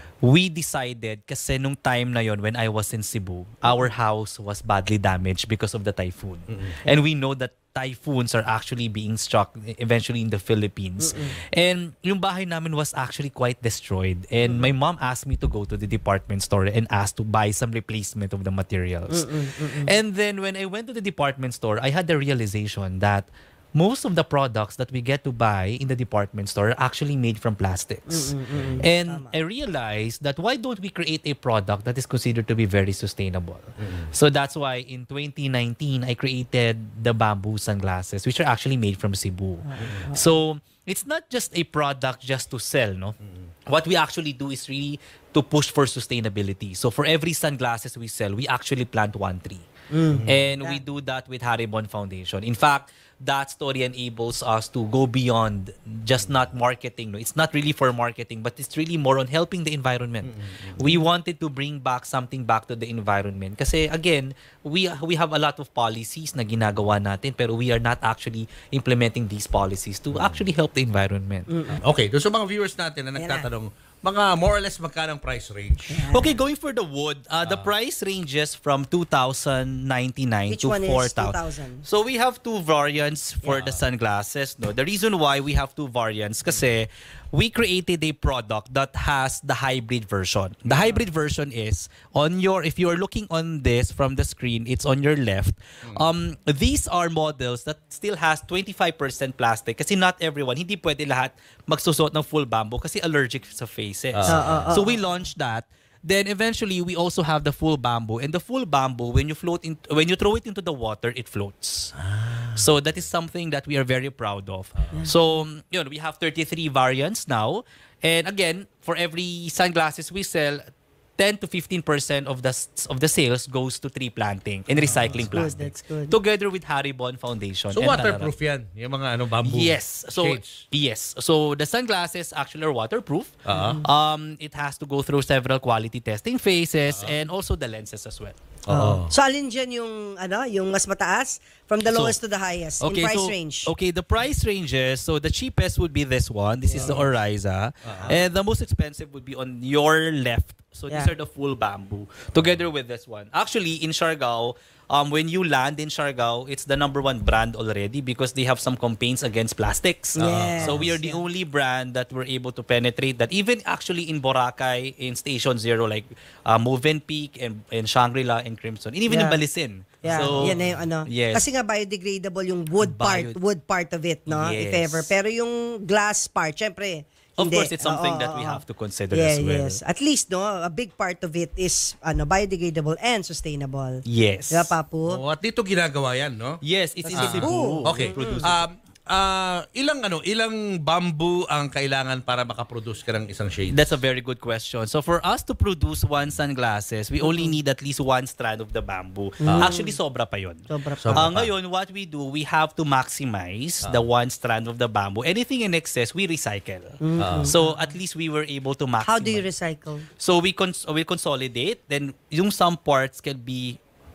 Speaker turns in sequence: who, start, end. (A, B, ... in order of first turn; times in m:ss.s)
0:00.2-0:49.7 A
0:11.0-0:11.4 B
0:14.4-0:14.7 B
0:19.1-0:19.9 B
0:28.1-0:29.3 B
0:33.8-0:34.1 C
0:39.6-0:40.3 B
0:49.9-0:50.8 B
0:50.1-0:50.4 C
0:50.2-1:11.5 A
1:00.2-1:00.8 C
1:10.1-1:10.4 C
1:11.5-1:11.8 B
1:11.8-1:15.9 C
1:13.2-1:13.5 B
1:15.9-1:16.4 B
1:16.0-1:52.0 A
1:17.4-1:17.7 C
1:20.5-1:21.8 B
1:23.5-1:23.8 C
1:30.7-1:31.0 C
1:44.1-1:44.7 C
1:44.3-1:45.0 B
1:52.0-1:52.5 C
1:52.5-2:00.7 A
1:54.8-1:55.1 C
2:01.2-2:08.3 A
2:04.8-2:05.4 C
2:04.9-2:06.2 B
2:07.7-2:10.6 C
2:09.4-2:18.4 A
2:13.4-2:13.8 C
2:13.5-2:13.9 B
2:16.9-2:17.2 C
2:18.7-2:19.1 C
2:18.7-2:23.7 B
2:21.9-2:22.2 A
2:22.8-2:51.4 A
2:26.6-2:27.1 B
2:26.8-2:27.1 C
2:27.8-2:28.2 C
2:30.9-2:31.1 B
2:40.2-2:41.2 B
2:40.3-2:40.9 C
2:49.1-2:49.4 B
2:50.0-3:05.2 B
2:50.0-2:50.8 C
2:52.8-2:53.4 A
2:54.3-2:55.1 A
2:57.4-2:59.8 A
3:04.0-3:04.7 A
3:05.0-3:06.6 C
3:06.6-3:08.7 A
3:07.0-3:08.5 B
3:07.1-3:14.0 C
3:13.7-3:29.5 A
3:17.2-3:17.6 B
3:19.4-3:19.7 C
3:19.4-3:20.0 B
3:20.7-3:21.3 B
3:21.0-3:21.5 C
3:27.0-3:27.9 B
3:27.2-3:27.6 C
3:29.0-3:30.1 B
3:30.2-3:33.8 A